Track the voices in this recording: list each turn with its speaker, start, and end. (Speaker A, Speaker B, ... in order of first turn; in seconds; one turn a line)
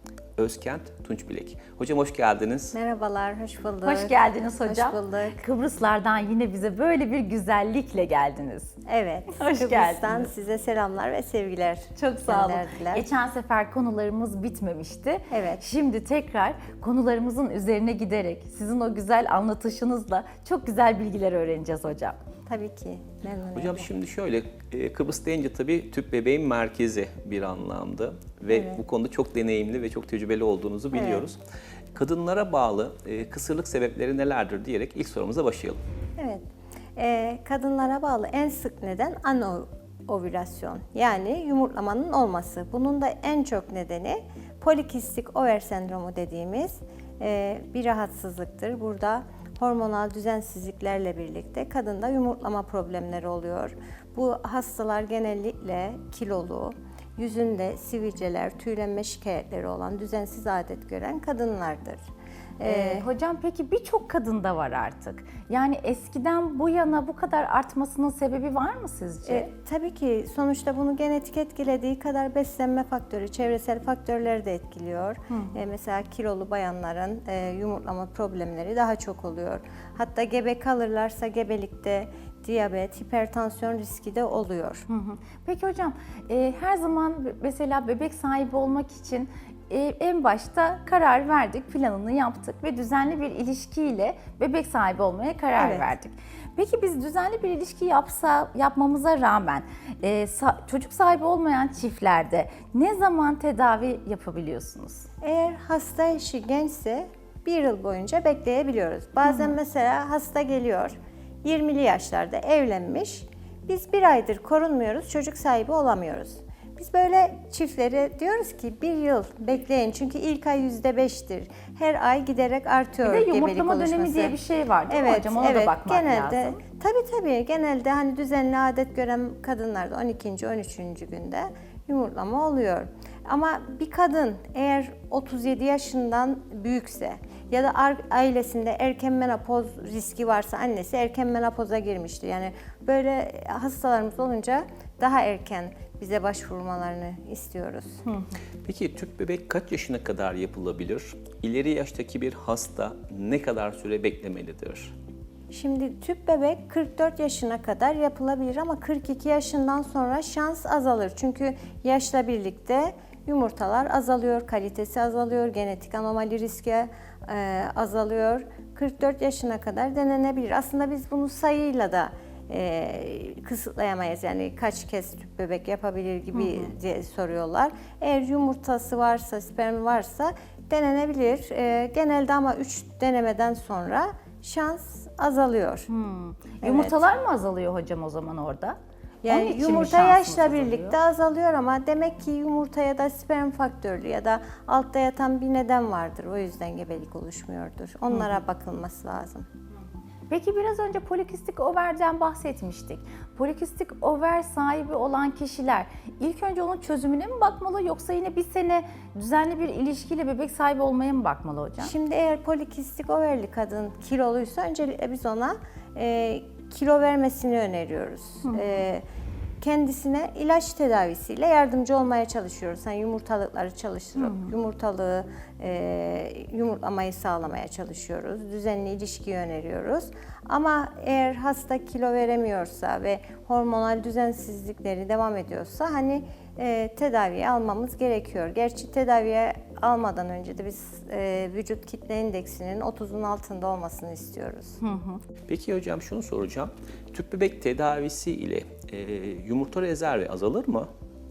Speaker A: 0.4-2.8
Speaker B: 2.7-5.4
Speaker C: 3.9-8.8
Speaker B: 8.8-13.1
Speaker C: 9.3-10.3
Speaker C: 12.0-22.2
Speaker B: 15.3-15.7
Speaker B: 22.5-23.9
Speaker A: 23.6-31.4
Speaker B: 28.5-28.8
Speaker B: 30.9-31.3
Speaker A: 31.9-35.8
Speaker B: 36.2-36.5
Speaker B: 37.0-62.0
Speaker B: 62.6-63.1
Speaker C: 62.6-69.5
Speaker B: 69.3-84.9
Speaker C: 84.9-105.1
Speaker B: 95.6-95.9
Speaker B: 105.2-124.4
Speaker C: 109.3-109.5
Speaker C: 123.0-126.6
Speaker B: 124.9-148.0
Speaker C: 148.1-148.3
Speaker A: 148.6-154.9
Speaker B: 155.5-185.9
Speaker C: 176.3-176.7
Speaker C: 185.9-188.8
Speaker B: 186.6-187.0
Speaker B: 189.2-199.5
Speaker C: 189.3-191.0
Speaker C: 198.1-198.4
Speaker C: 200.3-211.9
Speaker B: 211.8-219.0
Speaker B: 219.6-244.8
Speaker C: 224.2-224.5
Speaker C: 244.8-245.2
Speaker A: 245.5-250.9